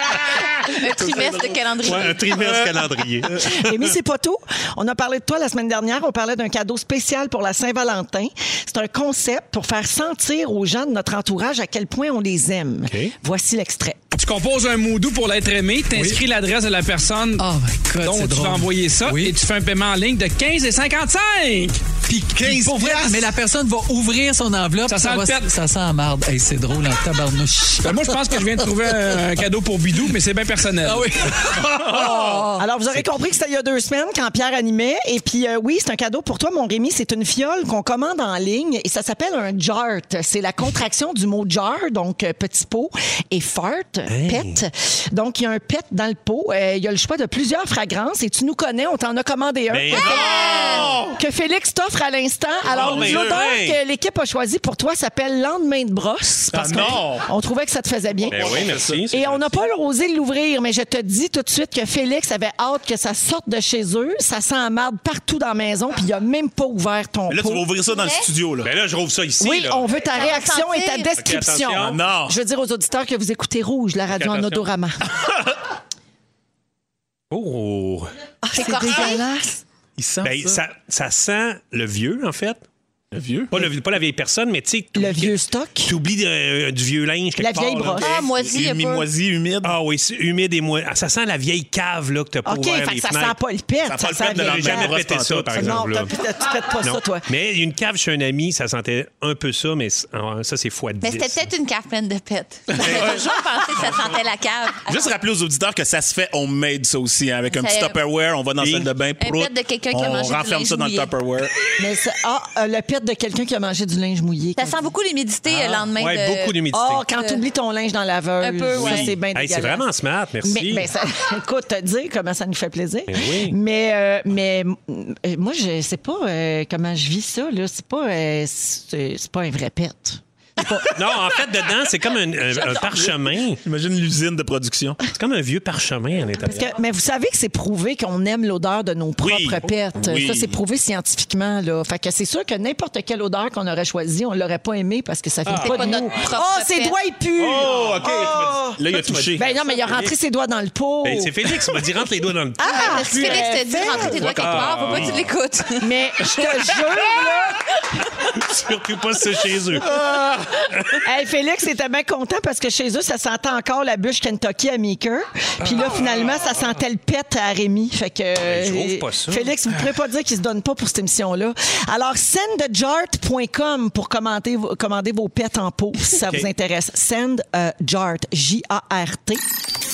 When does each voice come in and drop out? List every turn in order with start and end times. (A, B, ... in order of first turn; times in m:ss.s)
0:00.4-0:03.4 A
0:00.6-0:02.4 B
0:01.1-0:03.8 C
0:03.3-0:14.0 D
0:12.8-0:13.1 C
0:14.1-0:17.4 E
0:17.4-0:19.3 F
0:18.0-0:21.9 E
0:22.1-0:29.2 F
0:22.4-0:23.2 A
0:24.9-0:25.5 E
0:27.8-0:31.4 E
0:30.8-0:32.6 F
0:31.6-0:32.5 A
0:31.8-1:07.6 D
0:44.1-0:44.6 C
0:49.7-0:50.8 C
0:49.9-0:50.9 B
0:49.9-0:51.2 A
0:52.6-0:53.5 A
0:52.6-0:53.8 C
0:56.5-0:57.3 A
0:58.3-0:59.1 A
0:58.3-0:59.5 C
1:07.3-1:08.7 A
1:07.9-1:08.2 B
1:08.6-1:09.9 C
1:09.4-1:15.1 D
1:10.0-1:11.1 B
1:11.2-1:12.0 C
1:11.8-1:12.4 A
1:14.1-1:14.7 C
1:17.3-1:18.1 C
1:18.4-1:19.6 D
1:18.5-1:19.2 B
1:20.0-1:20.6 A
1:20.2-1:22.6 C
1:23.1-1:23.7 A
1:23.5-1:28.0 C
1:24.9-1:25.9 D
1:27.4-1:28.1 D
1:28.0-1:29.1 B
1:28.0-1:29.8 A
1:29.6-1:33.4 C
1:32.4-1:35.0 D
1:33.8-1:35.8 A
1:34.3-1:36.2 C
1:35.5-1:37.3 D
1:36.8-1:41.5 C
1:41.0-1:45.1 B
1:42.7-1:44.1 A
1:44.9-1:51.6 A
1:47.5-1:48.0 B
1:48.6-1:48.9 C
1:49.2-1:51.1 B
1:51.8-1:54.8 D
1:54.6-1:56.6 B
1:55.4-1:57.0 C
1:56.7-1:59.8 D
1:57.1-1:57.4 B
1:58.4-1:59.1 B
1:58.7-2:00.9 C
2:00.4-2:10.9 D
2:03.1-2:03.5 C
2:10.9-2:13.6 C
2:12.6-2:13.1 D
2:13.6-2:15.0 A
2:15.1-2:16.7 C
2:16.4-2:28.8 D
2:19.2-2:20.6 A
2:25.5-2:25.8 C
2:25.6-2:27.0 B
2:27.4-2:29.5 A
2:28.9-2:30.1 C
2:29.3-2:31.7 D
2:31.0-2:35.3 C
2:32.6-2:34.2 D
2:32.6-2:35.9 B
2:33.8-2:35.2 A
2:35.8-2:37.7 D
2:38.3-2:40.0 C
2:39.8-2:40.7 A
2:41.0-2:59.4 D
2:45.7-2:46.4 C
2:48.4-2:49.5 C
2:56.2-2:56.5 C